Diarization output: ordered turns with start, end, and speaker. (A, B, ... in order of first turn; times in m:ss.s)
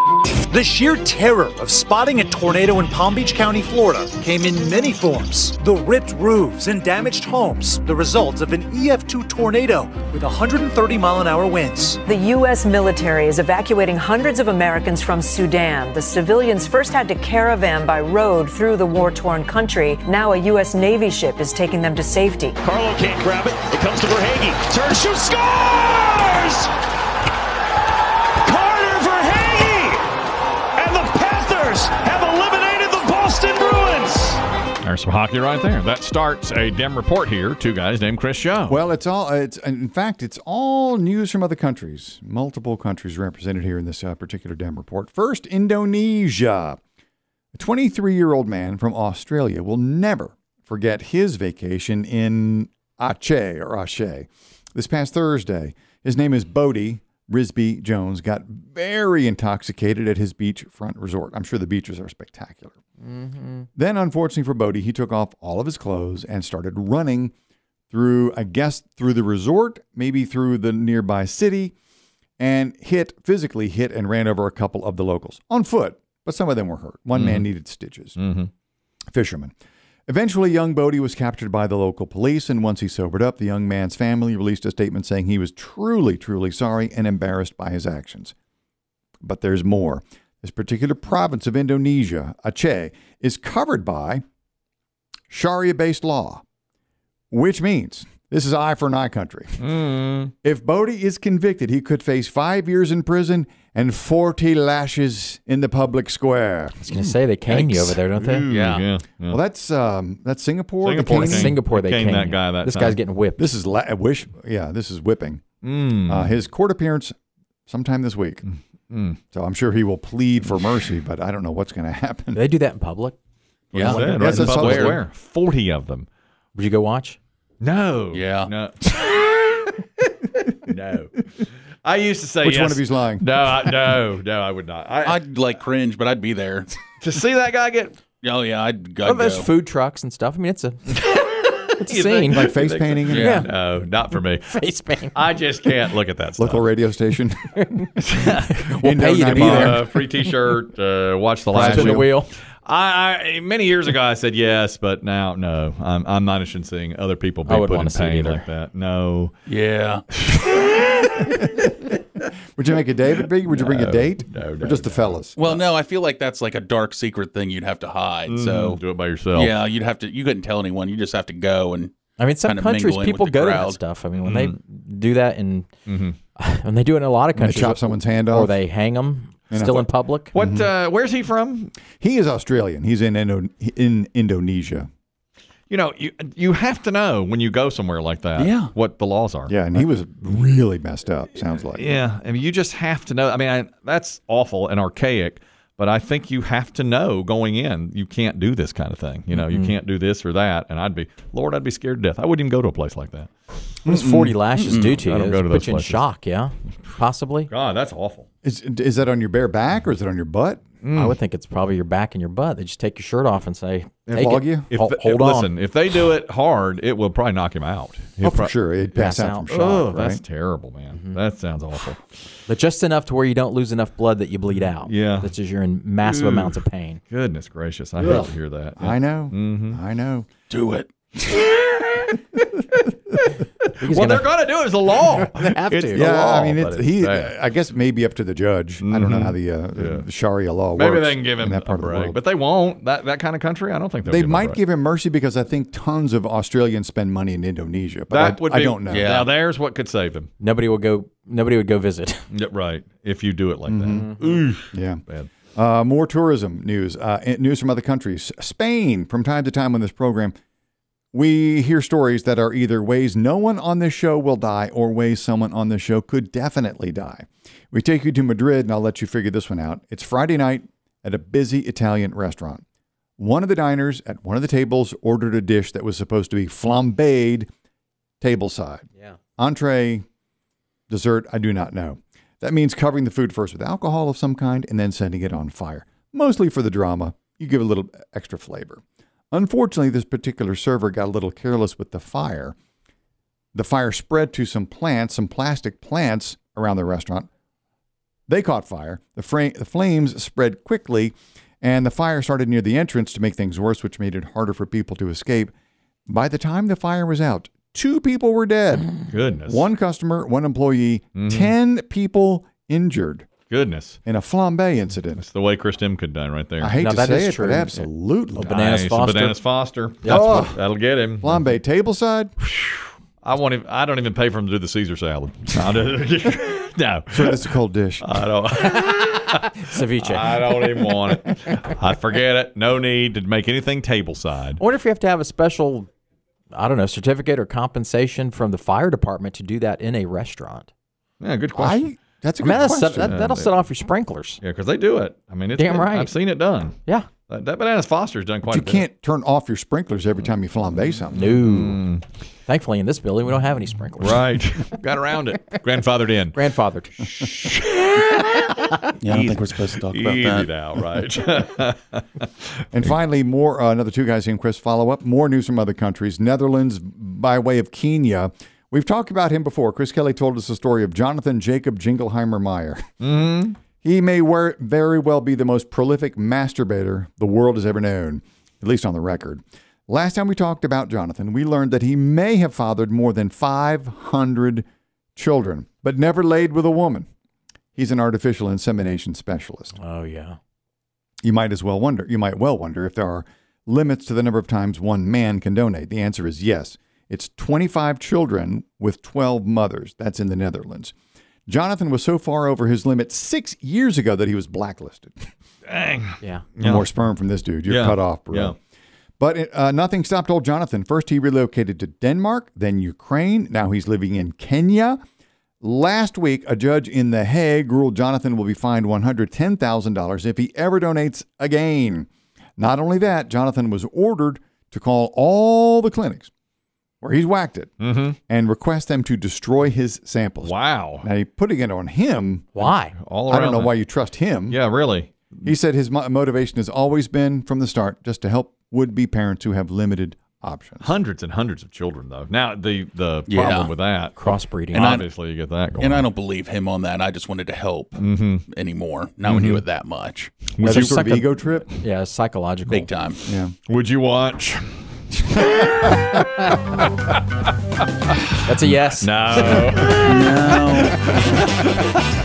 0:00.5-0:12.0 A
0:12.0-0:22.6 B
0:22.6-0:26.7 C
0:28.4-0:30.0 C
0:30.8-0:34.4 C
0:34.8-0:38.8 D
0:38.7-0:46.8 E
0:47.5-1:02.7 E
1:03.0-1:03.7 F
1:03.8-1:07.3 E
1:07.9-1:11.7 E
1:12.4-1:18.2 E
1:17.1-1:17.4 D
1:18.2-1:18.5 D
1:19.1-1:19.5 E
1:20.1-1:28.3 E
1:29.2-1:34.2 E
1:35.3-1:36.4 E
1:37.3-1:39.8 E
1:39.6-1:40.3 D
1:40.4-1:46.9 E
1:46.8-1:48.5 F
1:47.5-1:49.4 D
1:48.5-1:48.9 G
1:49.2-1:51.6 E
1:50.8-1:53.0 D
1:51.0-1:53.5 F
1:53.4-1:55.4 E
1:55.6-1:56.4 D
1:56.0-1:57.1 E
1:57.7-1:58.4 E
1:58.5-1:59.2 D
1:59.3-2:02.4 E
2:02.3-2:03.1 F
2:03.7-2:05.0 G
2:03.7-2:06.1 D
2:03.8-2:04.4 F
2:03.9-2:05.0 E
2:06.6-2:07.2 F
2:07.6-2:09.2 D
2:08.1-2:08.5 G
2:10.6-2:11.2 D
2:11.8-2:15.2 D
2:12.4-2:13.7 E
2:15.0-2:16.7 G
2:17.0-2:18.0 D
2:18.2-2:19.5 G
2:19.0-2:20.9 F
2:21.0-2:24.6 D
2:21.8-2:22.5 F
2:22.3-2:23.3 E
2:23.1-2:23.4 G
2:23.2-2:23.4 F
2:24.4-2:25.5 F
2:25.1-2:26.6 D
2:26.4-2:29.9 E
2:28.5-2:30.3 F
2:29.3-2:32.1 D
2:31.5-2:32.1 E
2:31.5-2:32.3 F
2:32.6-2:39.3 D
2:37.4-2:38.5 F
2:39.5-2:40.0 G
2:40.3-2:41.4 D
2:42.6-2:45.4 E
2:43.6-2:45.2 D
2:45.4-2:48.8 G
2:48.3-2:49.6 D
2:49.3-2:53.8 G
2:52.2-2:55.7 F
2:54.2-2:54.5 D
2:55.9-2:56.2 D
2:56.4-3:00.3 F
2:57.3-2:58.5 E
2:59.5-3:00.7 E
3:00.3-3:01.7 D
3:02.0-3:04.9 E
3:05.7-3:09.5 D
3:08.4-3:08.7 G
3:09.5-3:11.8 E
3:11.6-3:23.3 D
3:19.3-3:19.7 F
3:23.8-3:27.5 F
3:23.9-3:24.2 E
3:24.6-3:24.9 G
3:24.6-3:26.0 D
3:27.5-3:28.3 D
3:28.4-3:30.6 E
3:30.8-3:31.1 D
3:30.9-3:35.5 F
3:34.1-3:34.7 E
3:34.7-3:38.5 D
3:38.2-3:40.2 E
3:39.0-3:39.8 F
3:39.5-3:42.0 D
3:42.5-3:47.0 F
3:44.8-3:45.3 D
3:46.0-3:46.5 D
3:47.1-3:49.8 D
3:48.0-3:50.3 E
3:50.5-3:50.9 G
3:53.8-3:54.4 F
3:53.8-3:57.3 D
3:55.0-3:56.8 F
3:55.9-4:02.2 E
3:58.8-4:00.0 D
4:00.7-4:04.6 D
4:04.0-4:09.2 E
4:08.1-4:10.3 D
4:08.9-4:09.3 G
4:10.4-4:12.2 F
4:12.3-4:15.3 D
4:13.7-4:14.1 E
4:14.0-4:14.3 F
4:14.7-4:15.0 E
4:15.5-4:20.4 E
4:21.1-4:32.6 E
4:33.2-4:37.5 E
4:38.2-4:40.0 E
4:40.9-4:48.8 E
4:49.3-4:52.5 E
4:53.5-4:57.3 E
4:58.3-5:05.5 E
5:06.1-5:08.9 E
5:09.1-5:09.6 D
5:09.5-5:13.3 E
5:11.2-5:11.5 D
5:13.5-5:14.0 D
5:14.0-5:15.2 E
5:15.2-5:16.7 D
5:16.6-5:18.5 E
5:16.8-5:19.4 F
5:18.4-5:21.5 D
5:20.0-5:20.6 E
5:21.2-5:22.3 E
5:22.7-5:27.4 D
5:27.1-5:28.1 E
5:28.0-5:34.6 D
5:28.8-5:31.2 F
5:34.6-5:35.9 F
5:36.5-5:40.7 F
5:41.2-5:41.8 D
5:41.5-5:43.2 E
5:42.4-5:44.4 F
5:43.0-5:43.5 D
5:44.4-5:48.9 D
5:45.5-5:46.2 F
5:48.5-5:51.4 E
5:51.1-5:51.8 F
5:51.3-5:52.0 D
5:52.5-5:54.4 F
5:54.0-5:56.4 D
5:56.3-5:57.6 F
5:57.2-5:58.4 D
5:59.0-6:00.5 G
5:59.9-6:02.2 D
6:02.7-6:12.8 E
6:13.0-6:13.6 D
6:13.6-6:24.6 E
6:25.2-6:27.1 E
6:27.8-6:29.7 E
6:29.8-6:30.4 F
6:31.2-6:40.9 E
6:41.5-6:45.2 E
6:45.7-6:46.9 D
6:46.6-6:48.6 E
6:47.7-6:48.5 D
6:49.2-6:55.0 E
6:55.6-7:06.3 E
7:07.0-7:12.5 E
7:07.8-7:08.2 D
7:10.4-7:11.0 D
7:12.5-7:13.0 F
7:12.6-7:13.7 D
7:13.3-7:14.6 E
7:14.5-7:15.2 D
7:15.4-7:20.9 E
7:20.8-7:26.0 D
7:23.3-7:23.7 G
7:24.2-7:24.9 F
7:24.7-7:25.1 G
7:25.8-7:30.3 G
7:28.0-7:28.4 D
7:29.2-7:29.6 D
7:30.6-7:31.1 D
7:30.6-7:31.7 E
7:30.6-7:32.9 F
7:32.7-7:33.2 G
7:33.3-7:33.5 E
7:33.7-7:34.7 D
7:35.4-7:37.2 D
7:38.4-7:40.0 F
7:39.0-7:41.6 D
7:39.9-7:41.0 G